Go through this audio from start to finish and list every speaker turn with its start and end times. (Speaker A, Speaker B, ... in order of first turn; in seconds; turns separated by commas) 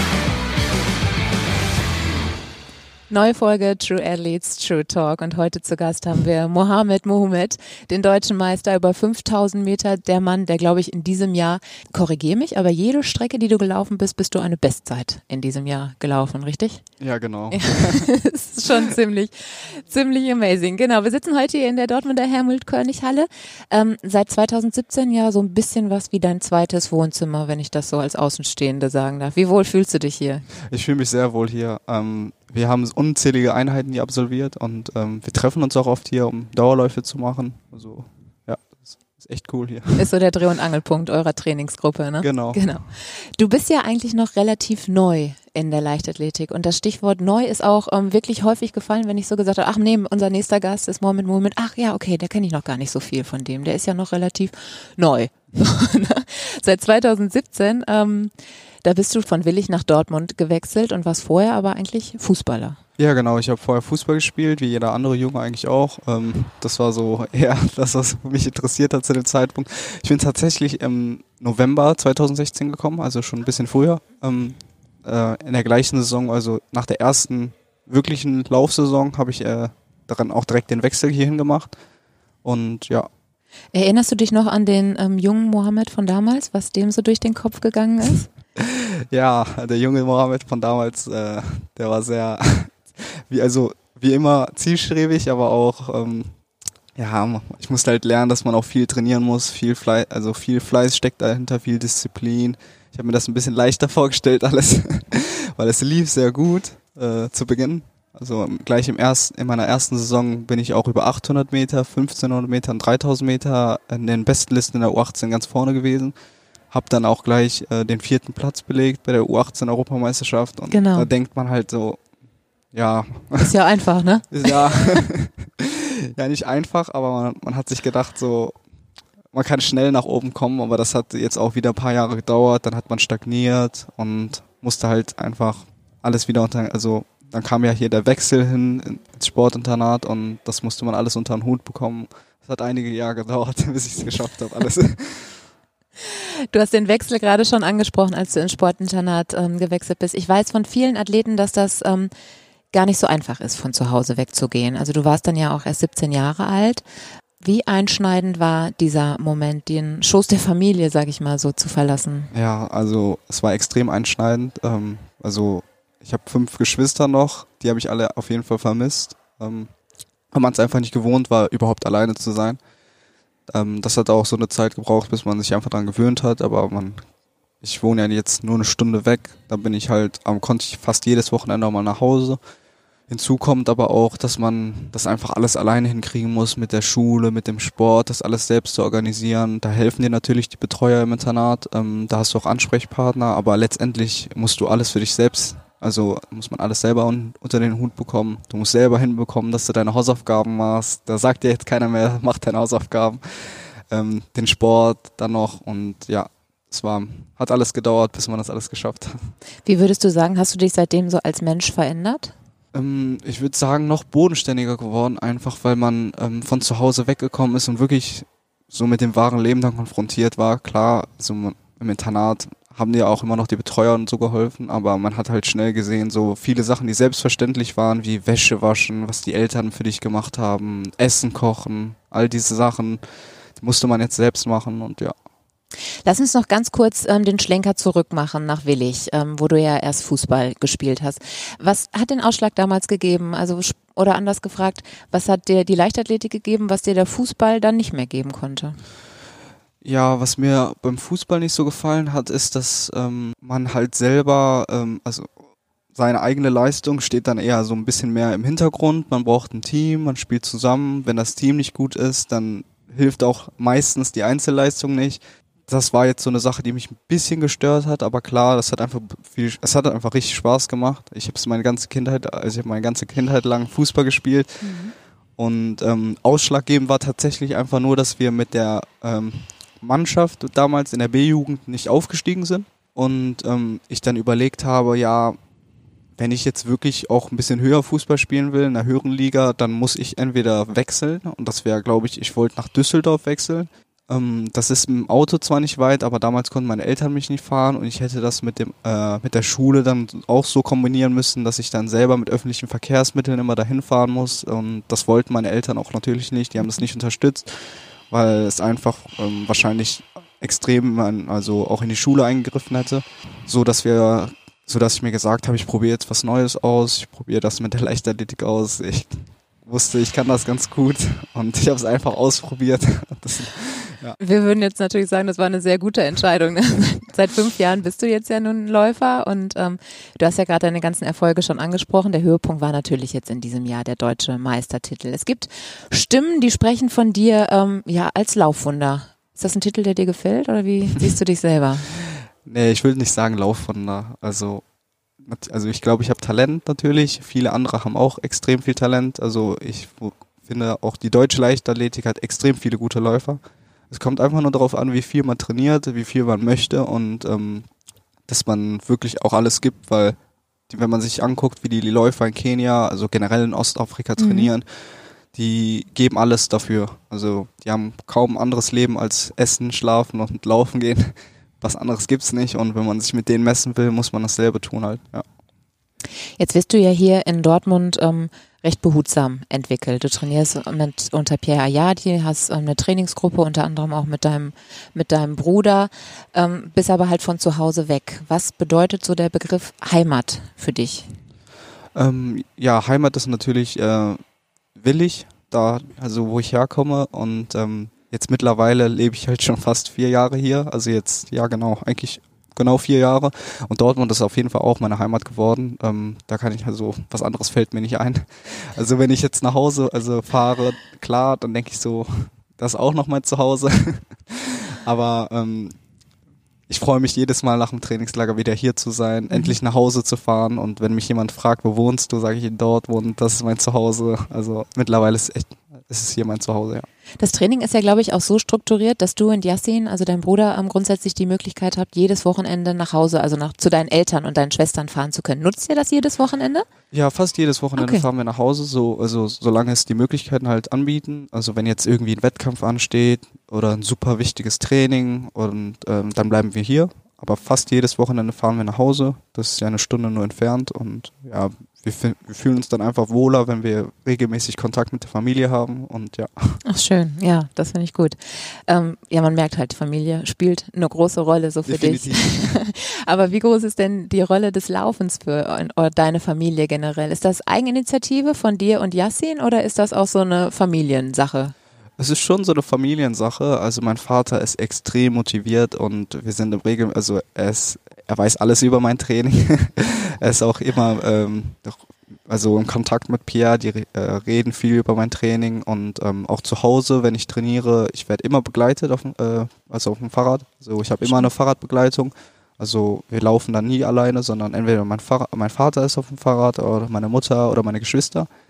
Speaker A: 3.1-16.8, Speaker B: 17.0-18.1, Speaker A: 17.5-30.5, Speaker B: 30.7-40.1, Speaker A: 40.0-58.3, Speaker B: 42.2-42.6, Speaker A: 58.8-62.8, Speaker B: 63.0-81.8, Speaker B: 82.4-83.1, Speaker A: 83.7-88.3, Speaker B: 88.6-96.3, Speaker B: 97.0-116.2, Speaker B: 116.7-122.0, Speaker A: 120.7-121.1, Speaker B: 122.7-123.5, Speaker A: 123.4-124.6, Speaker B: 124.3-128.6, Speaker B: 129.3-145.4, Speaker A: 146.0-152.1, Speaker A: 152.7-156.8, Speaker A: 157.4-162.3, Speaker B: 162.3-169.7, Speaker B: 170.3-172.6, Speaker B: 173.5-177.0, Speaker B: 177.6-182.4, Speaker B: 183.1-209.3, Speaker A: 209.7-212.3, Speaker B: 212.7-233.0, Speaker B: 233.6-235.1, Speaker A: 236.1-248.8, Speaker B: 249.8-255.3, Speaker B: 255.9-274.7, Speaker A: 274.6-274.9, Speaker B: 275.4-285.4, Speaker B: 286.2-324.2, Speaker A: 324.2-341.9, Speaker B: 342.4-344.6, Speaker B: 345.2-357.7, Speaker B: 358.3-360.2, Speaker B: 360.7-364.7, Speaker A: 364.2-364.5, Speaker B: 365.3-375.2, Speaker A: 376.4-391.1, Speaker B: 391.9-394.2, Speaker B: 394.8-415.8, Speaker B: 416.7-426.9, Speaker A: 419.3-419.6, Speaker A: 427.2-436.7, Speaker B: 436.9-456.6, Speaker A: 437.8-438.1, Speaker A: 456.6-471.5, Speaker B: 461.7-462.5, Speaker B: 472.0-498.3, Speaker A: 491.0-491.3